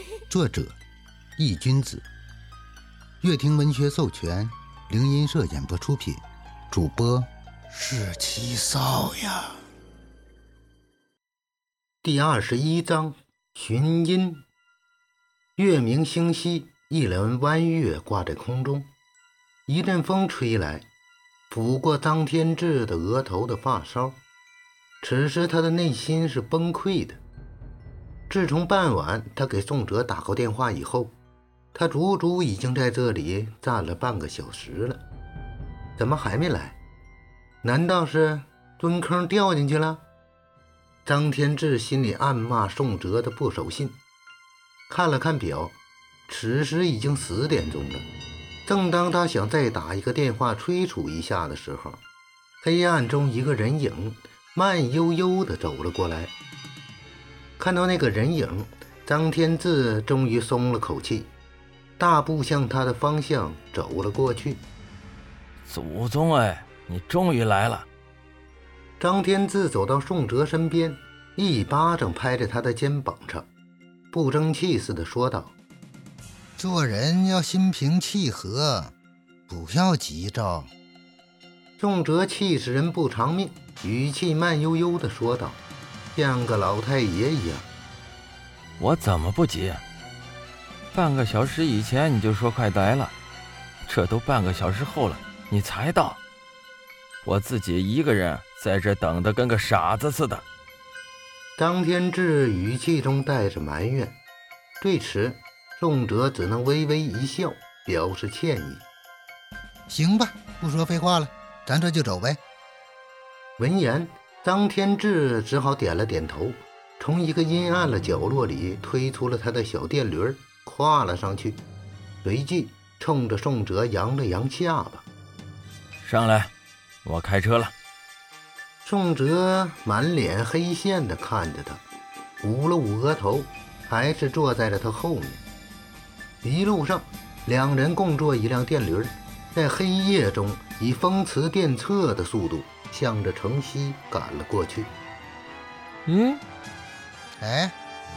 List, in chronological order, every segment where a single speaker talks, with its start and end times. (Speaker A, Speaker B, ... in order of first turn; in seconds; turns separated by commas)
Speaker A: 0.3-0.8, Speaker A: 1.4-2.1, Speaker A: 3.2-9.6, Speaker A: 12.0-14.4, Speaker A: 15.6-18.9, Speaker A: 19.7-20.9, Speaker A: 21.5-24.2, Speaker A: 25.0-27.2, Speaker A: 28.3-31.1, Speaker A: 31.7-35.0, Speaker A: 36.0-36.8, Speaker A: 37.6-40.0, Speaker A: 41.0-44.0, Speaker A: 44.9-45.8, Speaker A: 46.3-48.1, Speaker A: 48.7-52.0, Speaker A: 52.6-56.3, Speaker A: 57.6-61.3, Speaker A: 62.0-64.6, Speaker B: 65.7-67.9, Speaker A: 69.0-73.5, Speaker A: 74.1-75.5, Speaker A: 76.6-78.9, Speaker A: 79.5-80.7, Speaker A: 81.8-85.6, Speaker A: 86.2-87.7, Speaker B: 88.8-89.8, Speaker B: 90.9-93.1, Speaker B: 93.9-96.2, Speaker B: 97.2-100.4, Speaker A: 101.6-104.2, Speaker A: 104.8-108.8, Speaker A: 109.9-112.4, Speaker A: 113.6-121.6, Speaker A: 122.2-125.1, Speaker B: 126.0-126.5, Speaker B: 127.0-127.7, Speaker A: 128.8-131.8, Speaker A: 132.4-135.4, Speaker A: 136.4-144.9, Speaker B: 146.1-146.4, Speaker A: 147.4-147.8